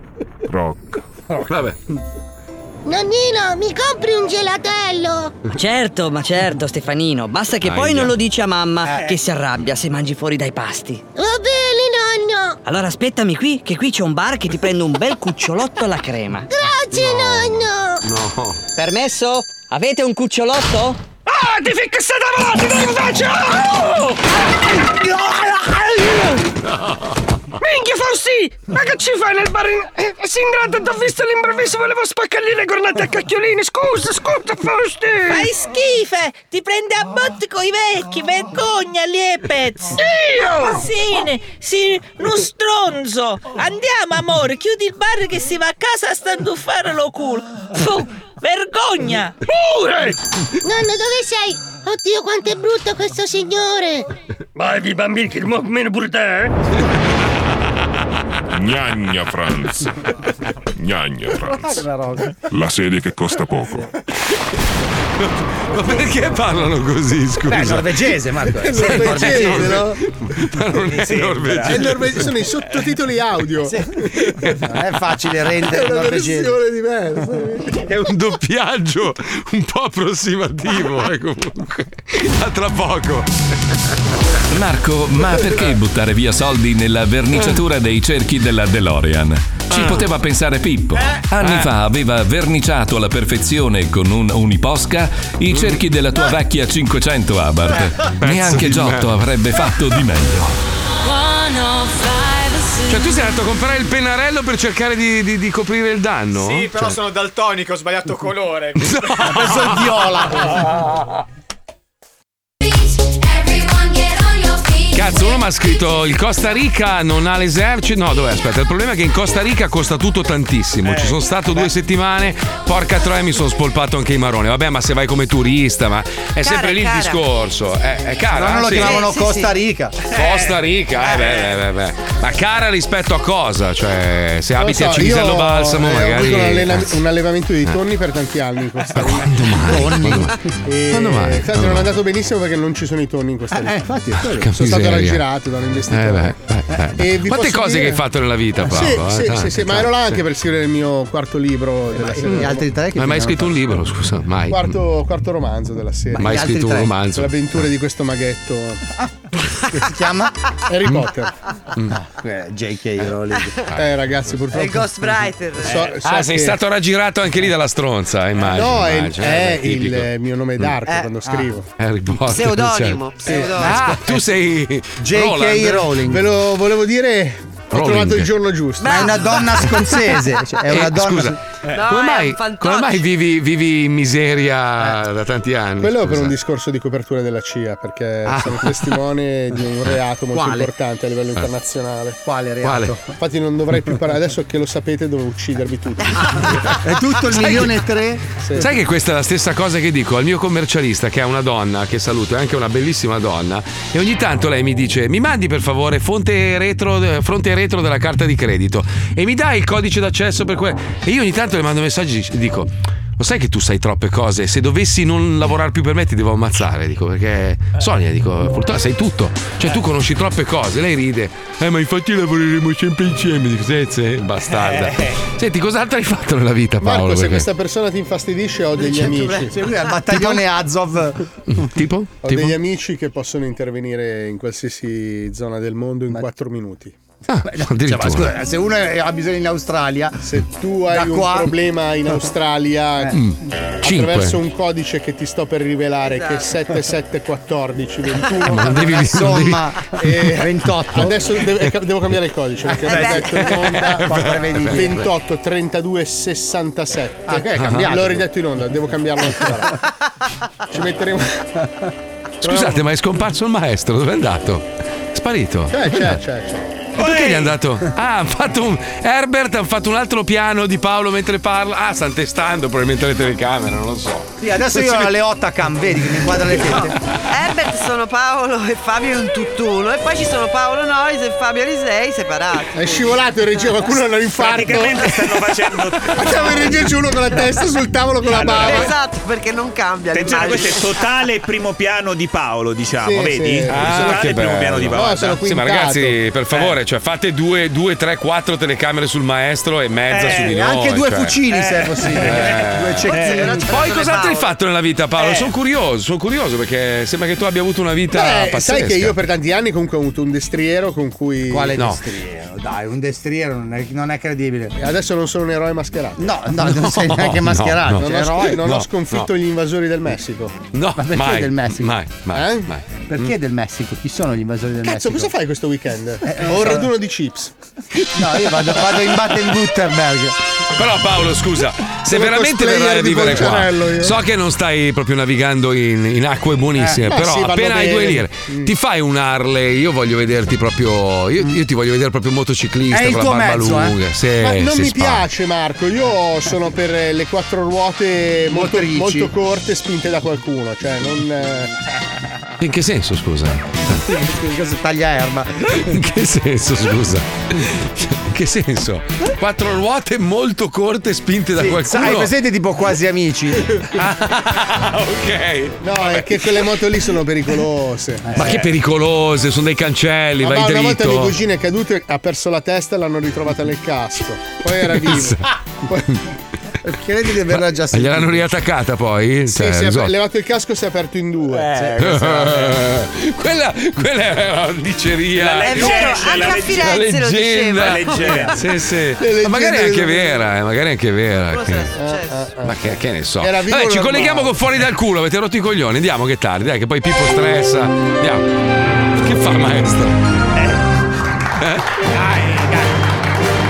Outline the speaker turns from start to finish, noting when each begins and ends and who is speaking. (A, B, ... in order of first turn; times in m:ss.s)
0:00.5-0:01.0 A
0:01.5-0:01.8 B
0:02.8-0:05.3 C
0:05.5-0:11.0 D
0:07.6-0:08.1 B
0:08.9-0:09.1 E
0:11.2-0:12.6 C
0:12.6-0:16.5 D
0:16.5-0:18.0 C
0:16.9-0:18.6 B
0:18.8-0:21.0 D
0:21.3-0:24.2 F
0:27.6-0:35.5 F
0:35.3-0:39.9 G
0:39.9-0:40.8 F
0:40.6-0:49.3 G
0:49.5-0:50.2 F
0:50.6-0:54.1 C
0:54.6-0:56.5 F
0:58.5-1:00.1 A
1:00.7-1:01.9 A
1:01.5-1:02.3 E
1:02.4-1:03.9 A
1:05.2-1:08.2 B
1:07.4-1:09.9 E
1:08.6-1:10.0 H
1:08.7-1:12.2 B
1:10.9-1:11.8 E
1:11.7-1:14.3 H
1:14.2-1:14.7 B
1:14.6-1:16.6 E
1:15.6-1:17.8 H
1:17.8-1:23.3 B
1:24.5-1:40.6 I
1:29.7-1:30.0 B
1:31.4-1:31.7 B
1:35.5-1:35.8 B
1:38.2-1:39.1 B
1:42.9-1:46.9 B
1:46.3-1:49.7 J
1:48.8-1:49.8 B
1:49.3-1:50.6 E
1:54.9-2:09.0 B
2:06.4-2:07.2 K
2:08.3-2:10.0 E
2:08.6-2:09.5 K
2:10.1-2:17.0 B
2:14.6-2:19.4 H
2:18.9-2:21.9 B
2:19.6-2:20.4 E
2:20.6-2:23.8 H
2:23.5-2:24.6 E
2:24.3-2:25.3 B
2:24.5-2:26.4 H
2:25.9-2:30.2 B
2:27.0-2:28.0 H
2:28.6-2:32.7 H
2:31.9-2:33.7 E
2:33.0-2:34.8 B
2:34.5-2:36.4 H
2:36.1-2:37.0 E
2:36.2-2:37.6 B
2:37.1-2:38.8 H
2:39.7-2:40.4 E
2:40.7-2:41.3 H
2:41.9-2:43.5 E
2:43.7-2:44.9 H
2:44.5-2:45.9 K
2:45.6-2:46.6 H
2:46.0-2:50.7 B
2:48.5-2:51.7 H
2:51.2-2:51.5 E
2:51.8-2:55.9 B
2:52.3-2:53.8 K
2:53.2-2:53.6 H
2:53.3-2:54.2 E
2:55.0-2:56.3 E
2:56.1-2:59.1 H
2:57.7-2:58.3 B
2:58.8-2:59.2 K
2:58.8-3:01.4 E
3:00.7-3:06.3 B
3:01.7-3:03.0 K
3:05.8-3:12.2 H
3:08.3-3:09.0 B
3:10.3-3:10.7 E
3:12.2-3:13.1 E
3:12.6-3:13.0 B
3:13.2-3:16.6 H
3:16.2-3:18.3 E
3:18.4-3:18.6 H
3:18.6-3:47.5 B
3:46.8-3:49.6 H
3:48.7-3:51.2 E
3:51.5-3:52.6 B
3:52.2-3:56.9 H
3:57.3-3:58.4 B
3:57.4-4:00.3 E
4:00.2-4:03.2 H
4:00.9-4:01.5 E
4:03.1-4:04.4 B
4:03.8-4:09.1 H
4:06.0-4:06.4 K
4:08.5-4:09.7 B
4:08.7-4:11.4 E
4:10.0-4:19.8 H
4:12.8-4:14.9 E
4:12.8-4:13.3 K
4:13.5-4:15.0 B
4:17.3-4:18.2 E
4:17.6-4:17.9 B
4:20.7-4:21.5 H
4:22.4-4:26.2 B
4:22.4-4:22.8 H
4:25.7-4:26.6 H
4:27.0-4:35.1 B
4:34.4-4:37.0 E
4:37.3-4:43.1 K
4:42.7-4:45.5 H
4:44.3-4:46.7 L
4:46.1-4:48.9 H
4:48.3-4:48.9 L
4:48.4-4:51.0 K
4:50.1-4:55.4 L
4:53.0-4:54.3 H
4:53.7-5:01.4 B
4:54.9-4:56.2 H
5:00.1-5:00.6 L
5:00.3-5:03.7 E
5:01.5-5:02.4 L
5:02.1-5:03.1 B
5:03.1-5:04.5 K
5:03.1-5:03.4 L
5:03.7-5:09.2 B
5:05.2-5:05.5 L
5:08.1-5:11.8 H
5:11.5-5:14.7 E
5:11.8-5:12.0 B
5:14.8-5:16.4 H
5:16.2-5:18.6 E
5:16.6-5:19.3 B
5:18.0-5:20.6 H
5:20.7-5:23.3 B
5:21.0-5:22.0 E
5:22.3-5:22.7 H
5:23.0-5:25.3 E
5:24.8-5:27.5 H
5:26.2-5:26.9 E
5:28.1-5:30.4 E
5:30.7-5:45.2 B
5:32.1-5:34.2 H
5:36.8-5:37.2 E
5:37.0-5:38.7 H
5:42.9-5:44.0 E
5:44.4-5:51.7 H
5:48.5-5:49.3 E
5:52.6-5:54.0 B
5:53.9-5:56.0 E
5:55.7-6:02.3 B
6:01.6-6:03.7 E
6:03.8-6:06.6 B
6:05.8-6:08.6 H
6:08.2-6:08.6 E
6:08.3-6:11.4 B
6:10.4-6:16.1 H
6:15.0-6:15.5 B
6:16.8-6:18.5 E
6:17.5-6:20.1 B
6:19.5-6:21.8 H
6:21.6-6:22.7 E
6:21.9-6:31.9 B
6:25.4-6:26.8 L
6:25.6-6:28.4 K
6:26.0-6:26.6 J
6:27.8-6:28.6 L
6:28.1-6:28.4 J
6:29.2-6:30.5 H
6:31.5-6:32.5 K
6:31.9-6:34.6 H
6:32.6-6:38.4 B
6:39.2-6:40.1 B